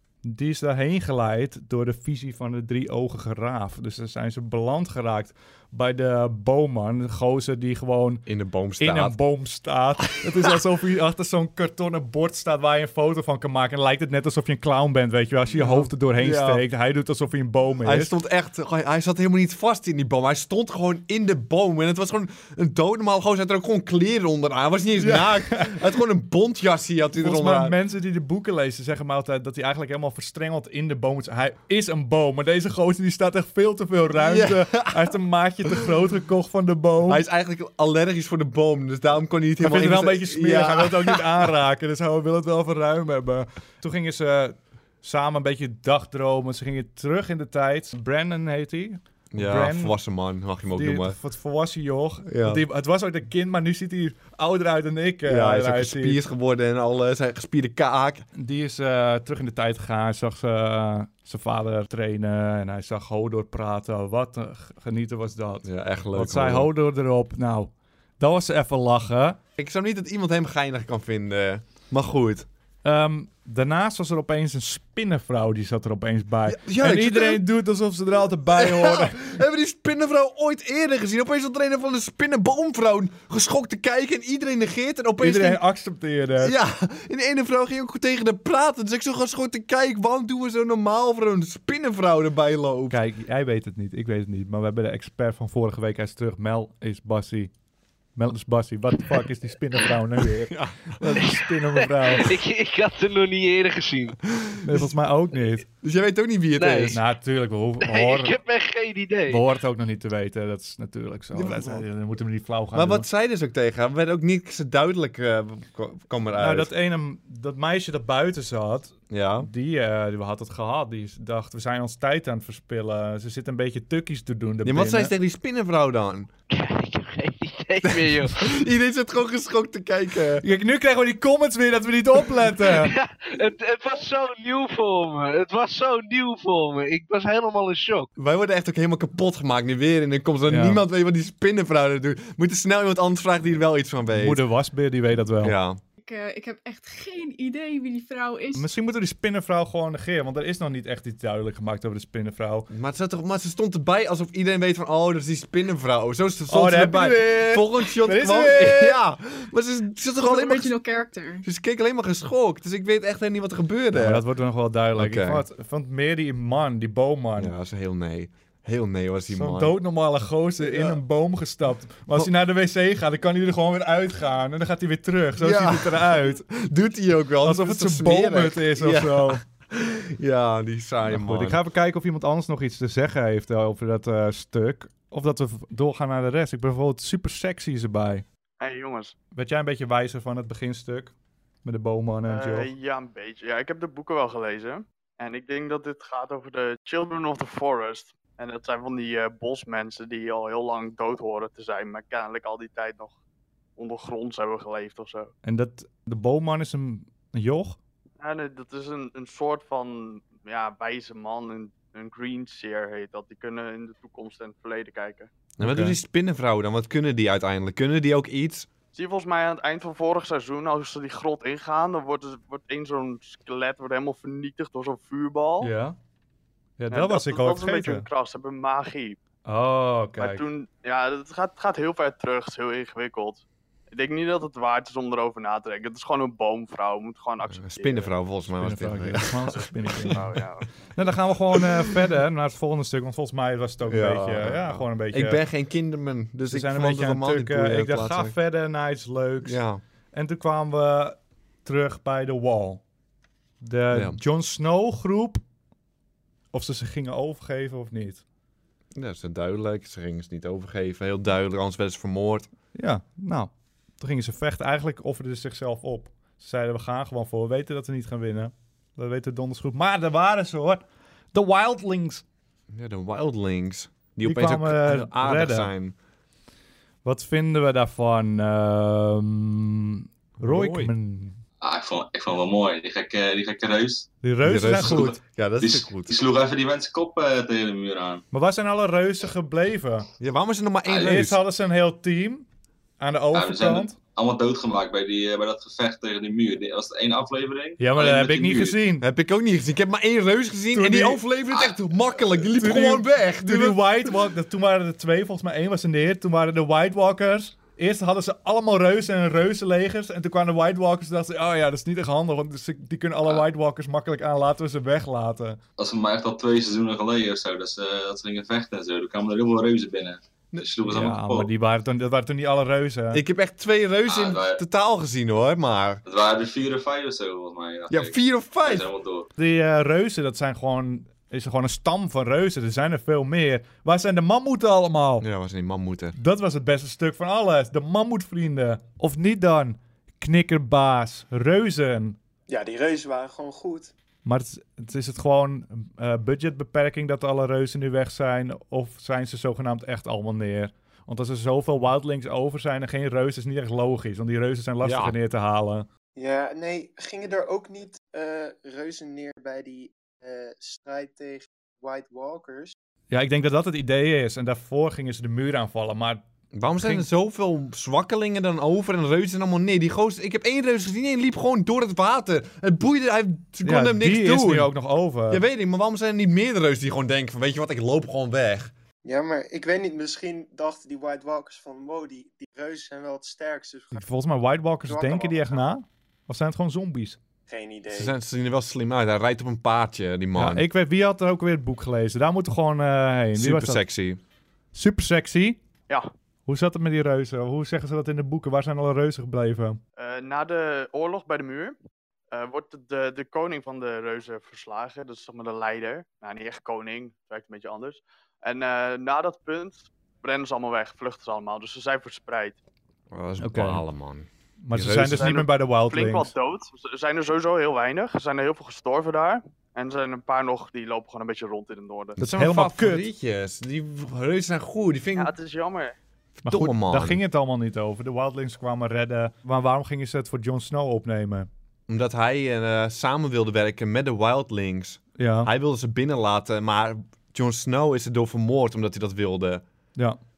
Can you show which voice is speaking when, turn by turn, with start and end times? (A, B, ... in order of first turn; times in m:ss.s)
0:00.2-0:08.2 A
0:08.3-0:09.2 B
0:08.8-0:18.1 A
0:15.5-0:16.6 B
0:17.8-0:27.8 B
0:25.0-0:25.8 A
0:27.2-0:37.2 A
0:34.2-0:35.1 B
0:37.1-0:41.5 B
0:39.6-0:50.0 A
0:49.3-0:51.2 B
0:50.7-0:56.2 A
0:52.3-0:52.6 B
0:55.3-0:58.3 B
0:58.4-1:09.4 A
1:05.6-1:06.7 B
1:09.6-1:12.5 B
1:12.8-1:19.3 A
1:16.5-1:17.4 B
1:18.5-1:25.6 B
1:25.2-1:26.6 A
1:26.4-1:33.0 B
1:32.9-1:37.5 A
1:38.2-1:42.3 A
1:40.5-1:41.2 B
1:42.1-1:44.2 C
1:44.3-1:44.9 B
1:44.6-1:45.6 A
1:45.8-1:47.0 B
1:46.6-1:47.0 C
1:46.9-1:48.3 A
1:47.8-1:49.4 C
1:49.3-1:53.1 A
1:51.3-1:51.8 B
1:52.7-1:56.7 B
1:56.4-2:05.1 A
1:59.1-1:59.5 B
2:04.6-2:06.3 B
2:06.5-2:08.5 C
2:07.8-2:10.4 B
2:10.4-2:12.9 A
2:12.6-2:18.1 C
2:18.2-2:24.4 B
2:20.5-2:20.8 A
2:24.1-2:25.6 A
2:25.4-2:25.8 B
2:26.0-2:28.7 D
2:28.6-2:32.7 A
2:32.7-2:40.8 B
2:36.5-2:39.0 A
2:40.2-2:41.4 D
2:41.4-2:44.2 B
2:43.9-2:47.5 A
2:45.0-2:45.4 B
2:47.4-2:49.8 B
2:49.3-2:56.4 A
2:50.6-2:51.0 B
2:55.4-3:01.6 B
2:57.4-2:59.4 A
3:01.1-3:08.2 A
3:08.6-3:09.2 E
3:09.3-3:11.1 A
3:11.6-3:12.7 A
3:12.3-3:23.2 E
3:23.8-3:25.3 E
3:25.4-3:27.8 A
3:28.2-3:35.3 E
3:35.6-3:38.7 B
3:35.6-3:36.0 A
3:38.9-3:45.7 E
3:45.6-3:46.0 A
3:46.8-3:48.1 A
3:46.9-3:49.2 E
3:49.5-3:50.4 A
3:50.2-3:58.1 E
3:57.5-4:00.2 B
3:58.6-4:00.3 A
4:00.1-4:00.7 E
4:01.0-4:05.4 A
4:01.5-4:01.9 B
4:03.9-4:08.4 B
4:06.5-4:09.6 A
4:09.4-4:09.8 B
4:10.1-4:12.8 A
4:13.6-4:15.4 A
4:13.9-4:14.2 B
4:16.5-4:18.2 A
4:18.9-4:22.5 B
4:22.7-4:30.8 A
4:31.3-4:32.2 A
4:32.7-4:36.0 B
4:34.2-4:35.7 A
4:37.0-4:41.4 A
4:40.4-4:40.9 B
4:41.6-4:44.1 F
4:44.2-4:45.2 A
4:44.4-4:46.1 B
4:45.6-4:48.2 F
4:48.3-4:50.1 A
4:50.2-4:51.4 B
4:50.9-4:51.1 F
4:51.0-4:52.4 A
4:53.0-4:53.9 A
4:53.3-4:58.8 F
4:57.8-4:59.0 A
4:59.0-5:03.8 B
5:00.7-5:01.2 A
5:02.6-5:15.6 A
5:15.8-5:21.5 F
5:20.5-5:21.1 B
5:20.8-5:23.2 A
5:23.1-5:26.0 B
5:24.1-5:24.6 F
5:26.0-5:29.3 F
5:27.9-5:28.9 B
5:29.4-5:35.3 A
5:35.2-5:36.2 B
5:36.2-5:42.2 A
5:42.5-5:43.9 G
5:44.2-5:55.9 A
5:54.8-5:55.2 B
5:56.2-6:02.8 G
6:03.1-6:06.2 A
6:06.5-6:14.7 B
6:06.8-6:07.0 A
6:13.6-6:15.4 A
6:15.3-6:18.7 B
6:19.0-6:24.1 G
6:23.9-6:27.2 A
6:24.9-6:25.6 G
6:27.5-6:28.1 G
6:27.9-6:30.6 B
6:30.4-6:33.8 A
6:33.4-6:34.2 B
6:34.7-6:35.6 A
6:36.5-6:39.8 A
6:40.0-6:41.8 E
6:42.3-6:52.6 E
6:53.1-6:55.4 B
6:53.4-6:53.8 A
6:54.6-6:56.3 A
6:55.1-7:02.2 E
7:02.2-7:03.1 A
7:02.2-7:05.3 B
7:05.2-7:06.0 E
7:06.4-7:07.2 B
7:06.4-7:11.5 A
7:11.9-7:19.6 B
7:15.2-7:15.5 A